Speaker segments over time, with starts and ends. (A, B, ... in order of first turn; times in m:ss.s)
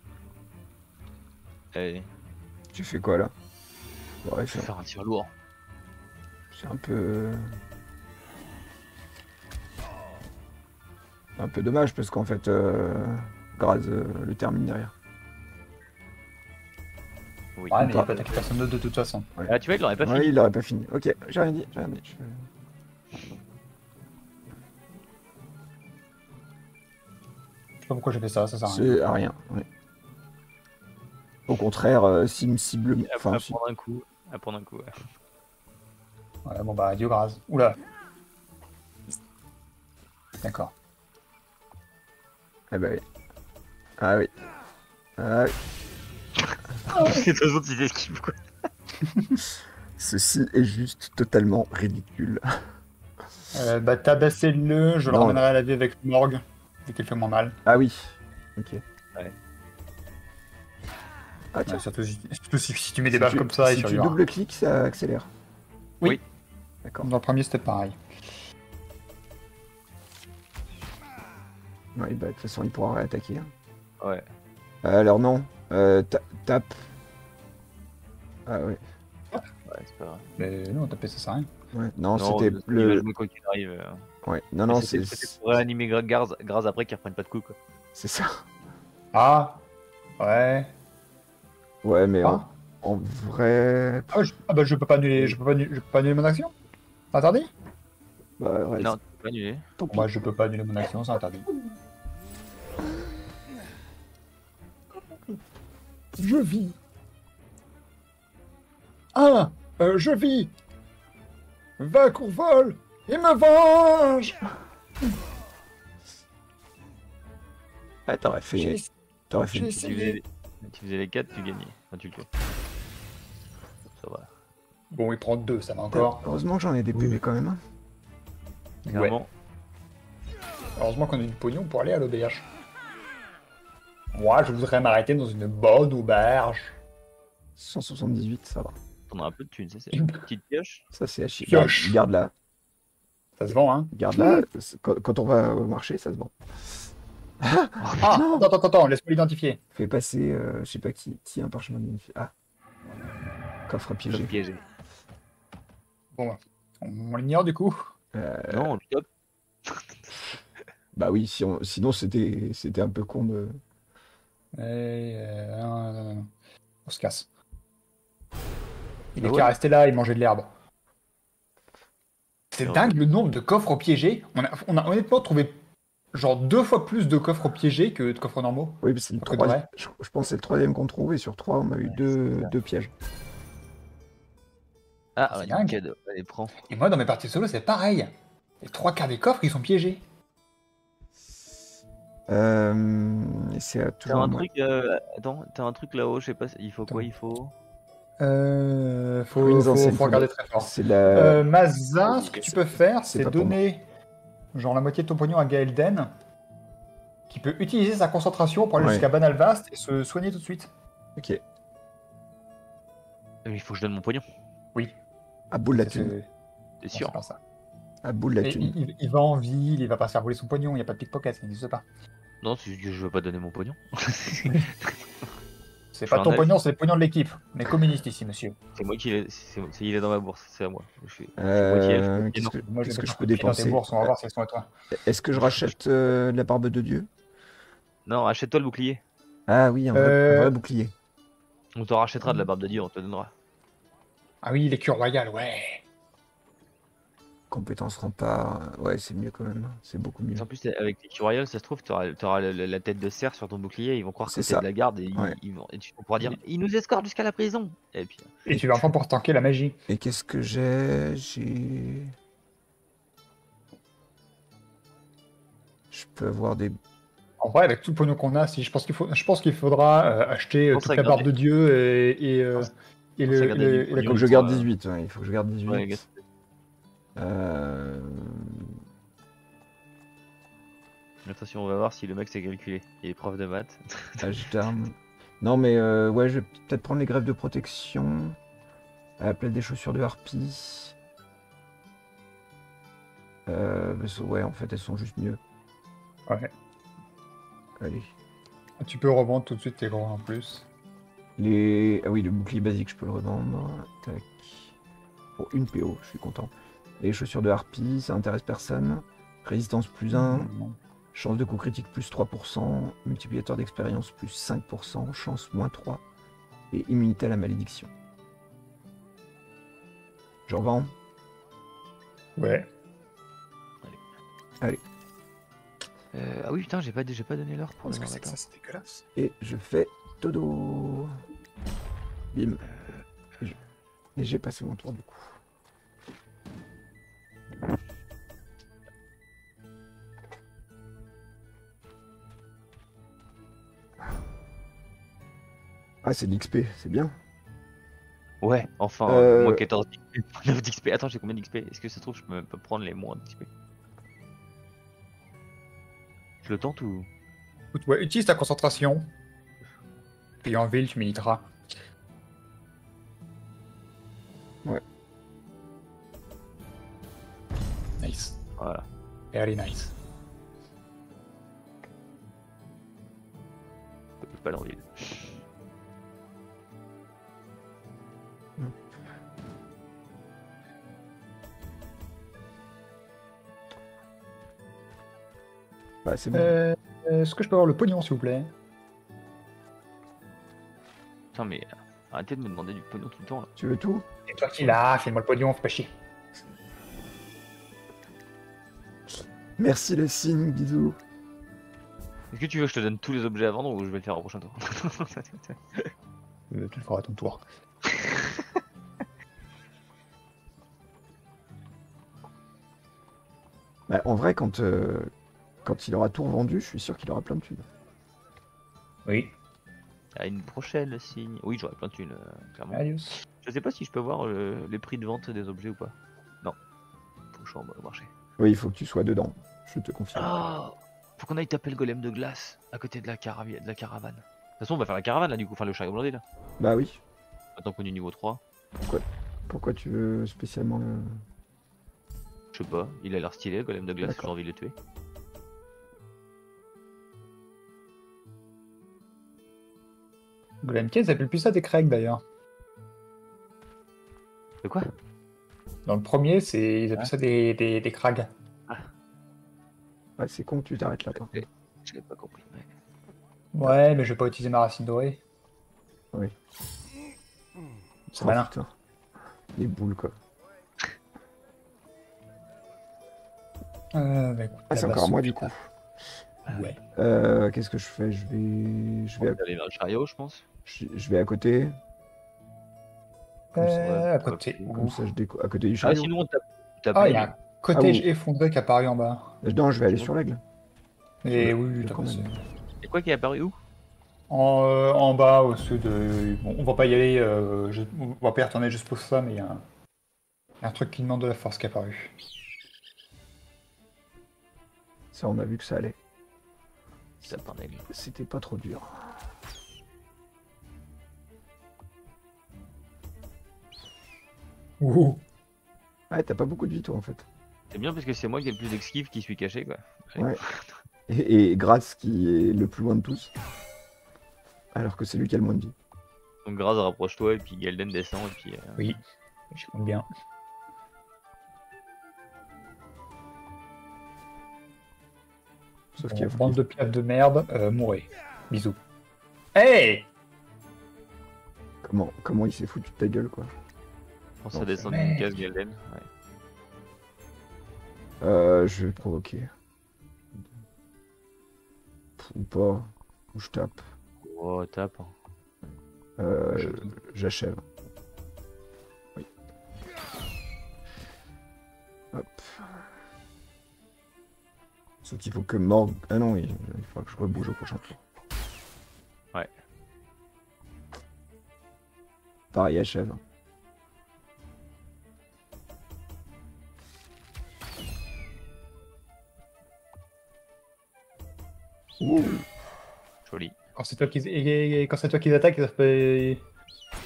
0:01.7-0:02.1 A
0:02.7-0:03.3 B
0:04.2-0:04.7 B
0:04.5-0:05.3 A
0:06.5-0:07.6 B
0:11.4-0:14.9 B
0:17.6-0:18.5 A
0:17.7-0:19.3 C
0:17.8-0:18.1 B
0:19.4-0:22.5 B
0:19.5-0:20.4 A
0:27.8-0:29.0 C
0:28.6-0:29.7 B
0:31.5-0:33.6 B
0:33.1-0:34.9 A
0:36.4-0:37.8 C
0:40.4-0:40.7 C
0:42.7-0:43.0 B
0:44.0-0:44.3 B
0:45.2-0:45.6 B
0:46.9-0:48.4 A
0:49.1-0:49.4 C
0:50.0-0:52.4 B
0:53.5-0:57.6 C
0:55.1-0:55.4 B
0:57.7-0:58.8 B
1:01.5-1:01.8 B
1:01.7-1:04.2 C
1:03.1-1:05.3 B
1:06.8-1:07.1 B
1:07.0-1:08.0 C
1:12.0-1:13.5 B
1:14.0-1:14.3 A
1:14.8-1:16.8 B
1:18.5-1:18.8 B
1:19.7-1:20.3 A
1:20.4-1:21.5 C
1:21.7-1:23.1 B
1:22.2-1:24.1 A
1:24.2-1:25.4 B
1:24.7-1:27.6 A
1:28.0-1:28.4 B
1:29.1-1:29.6 C
1:30.2-1:30.7 C
1:31.8-1:34.1 B
1:32.2-1:32.5 C
1:34.1-1:36.5 C
1:37.1-1:37.5 C
1:38.4-1:39.0 B
1:38.8-1:39.7 A
1:39.8-1:40.3 B
1:39.9-1:41.5 C
1:46.2-1:46.8 C
1:49.2-1:50.5 C
1:51.8-1:54.4 C
1:58.1-1:59.8 B
1:58.5-2:00.2 C
1:59.8-2:02.3 A
2:04.0-2:04.3 A
2:04.9-2:06.2 C
2:05.9-2:07.6 B
2:08.9-2:09.2 C
2:08.9-2:09.3 A
2:10.8-2:12.4 C
2:14.1-2:16.8 C
2:17.6-2:18.8 B
2:19.1-2:20.8 A
2:19.9-2:20.2 C
2:20.9-2:22.3 B
2:21.4-2:22.0 C
2:23.4-2:24.4 C
2:23.9-2:26.4 B
2:27.4-2:28.5 B
2:27.8-2:28.2 A
2:28.0-2:29.6 C
2:29.7-2:32.3 B
2:33.7-2:34.4 B
2:34.1-2:34.6 A
2:36.2-2:37.9 C
2:38.1-2:38.7 B
2:38.5-2:39.1 A
2:39.7-2:40.1 A
2:40.9-2:43.6 B
2:44.6-2:46.3 C
2:46.9-2:47.3 C
2:49.2-2:50.5 C
2:49.2-2:49.5 A
2:52.5-2:55.6 C
2:52.6-2:53.0 A
2:56.1-2:59.7 C
2:58.8-3:02.9 B
3:01.8-3:02.5 A
3:05.2-3:06.6 A
3:05.3-3:05.8 C
3:06.6-3:10.0 C
3:12.3-3:14.5 B
3:14.1-3:17.5 A
3:18.2-3:23.9 C
3:19.4-3:21.4 B
3:22.3-3:22.6 B
3:23.1-3:23.6 B
3:24.5-3:26.1 C
3:27.3-3:30.7 C
3:28.8-3:29.1 B
3:31.2-3:31.4 B
3:33.4-3:34.3 A
3:35.5-3:36.1 B
3:35.7-3:36.3 C
3:36.8-3:37.2 A
3:36.9-3:37.4 C
3:38.0-3:38.8 B
3:38.4-3:41.8 C
3:42.4-3:45.0 A
3:44.4-3:44.7 C
3:45.9-3:48.6 C
3:46.1-3:46.6 A
3:48.8-3:52.6 A
3:51.4-3:54.1 B
3:52.6-3:54.7 C
3:54.9-3:57.1 B
3:55.4-3:55.7 A
3:58.1-3:59.0 A
3:59.5-4:00.9 B
3:59.9-4:00.6 C
4:01.8-4:03.3 A
4:04.4-4:05.8 C
4:07.5-4:10.5 B
4:10.4-4:18.4 A
4:14.3-4:15.4 B
4:18.5-4:19.8 C
4:19.9-4:22.1 B
4:25.9-4:26.8 B
4:27.4-4:34.2 C
4:30.7-4:31.3 A
4:33.3-4:34.7 A
4:34.0-4:36.0 B
4:35.7-4:36.2 A
4:37.2-4:38.8 B
4:41.2-4:44.4 A
4:44.2-4:48.4 B
4:49.2-4:51.0 B
4:53.5-4:55.4 B
4:57.8-4:58.1 B
4:58.8-5:00.7 C
5:01.4-5:04.7 B
5:05.4-5:10.5 B
5:10.1-5:10.8 C
5:11.1-5:16.0 B
5:16.7-5:17.9 B
5:20.5-5:20.9 B
5:22.4-5:22.7 C
5:26.1-5:28.4 A
5:27.8-5:29.0 C
5:29.2-5:31.1 B
5:32.3-5:32.6 B
5:32.7-5:33.0 A
5:34.2-5:35.3 B
5:46.0-5:47.2 B
5:48.4-5:53.5 A
5:49.1-5:49.6 B
5:56.4-5:57.1 A
5:57.7-5:59.1 C
6:00.4-6:01.5 C
6:08.0-6:08.4 C
6:08.6-6:08.9 A
6:09.3-6:09.9 C
6:14.2-6:15.4 A
6:26.0-6:26.6 B
6:26.3-6:28.5 C
6:31.3-6:33.5 A
6:33.6-6:34.1 B
6:34.3-6:35.9 C
6:39.6-6:41.0 B
6:42.3-6:45.9 A
6:46.5-6:47.4 C
6:47.9-6:48.4 A
6:53.9-6:55.1 B
6:55.6-6:57.7 B
6:59.1-6:59.3 C
7:00.2-7:02.8 A
7:02.7-7:03.2 C
7:03.4-7:06.6 A
7:07.3-7:08.1 A
7:08.4-7:10.4 B
7:10.2-7:16.2 A
7:16.6-7:17.0 B
7:17.6-7:18.4 A
7:18.9-7:21.2 B
7:22.5-7:24.8 A
7:24.0-7:24.3 B
7:30.6-7:32.2 C
7:34.6-7:34.9 A
7:35.9-7:38.3 C
7:40.2-7:41.4 B
7:41.1-7:42.7 A
7:43.5-7:45.2 C
7:48.1-7:48.5 C
7:48.2-7:48.7 B
7:49.5-7:50.2 B
7:53.9-7:55.5 C
7:54.7-7:55.7 B
7:56.5-7:56.8 A
7:56.5-7:56.8 C
7:57.0-7:59.4 B
7:59.2-8:00.4 A
8:00.7-8:01.8 B
8:03.6-8:04.8 A
8:03.6-8:05.0 C
8:04.8-8:06.1 B
8:05.8-8:07.3 A
8:07.0-8:09.4 C
8:07.7-8:08.1 B
8:09.4-8:10.4 B
8:09.8-8:10.1 A
8:11.2-8:12.4 C
8:11.3-8:12.3 B
8:12.8-8:13.6 A
8:14.3-8:19.6 C
8:20.6-8:22.1 C
8:25.1-8:26.0 B
8:27.3-8:27.9 A
8:27.9-8:29.2 B
8:34.8-8:35.2 C
8:36.1-8:37.3 B
8:37.7-8:40.7 A
8:41.1-8:43.3 B
8:44.7-8:45.8 B
8:46.4-8:49.0 A
8:49.5-8:50.1 C
8:56.0-8:58.8 C
8:56.0-8:56.6 B
8:59.6-9:00.1 C
9:01.8-9:03.5 B
9:04.4-9:06.1 A
9:04.5-9:04.8 B
9:04.9-9:05.3 C
9:08.2-9:09.5 B
9:12.2-9:13.8 B
9:14.2-9:15.2 A
9:16.2-9:17.6 B
9:22.1-9:22.9 B
9:25.0-9:28.0 B
9:32.5-9:33.2 B
9:42.0-9:42.5 B
9:43.3-9:43.6 A
9:43.8-9:46.4 C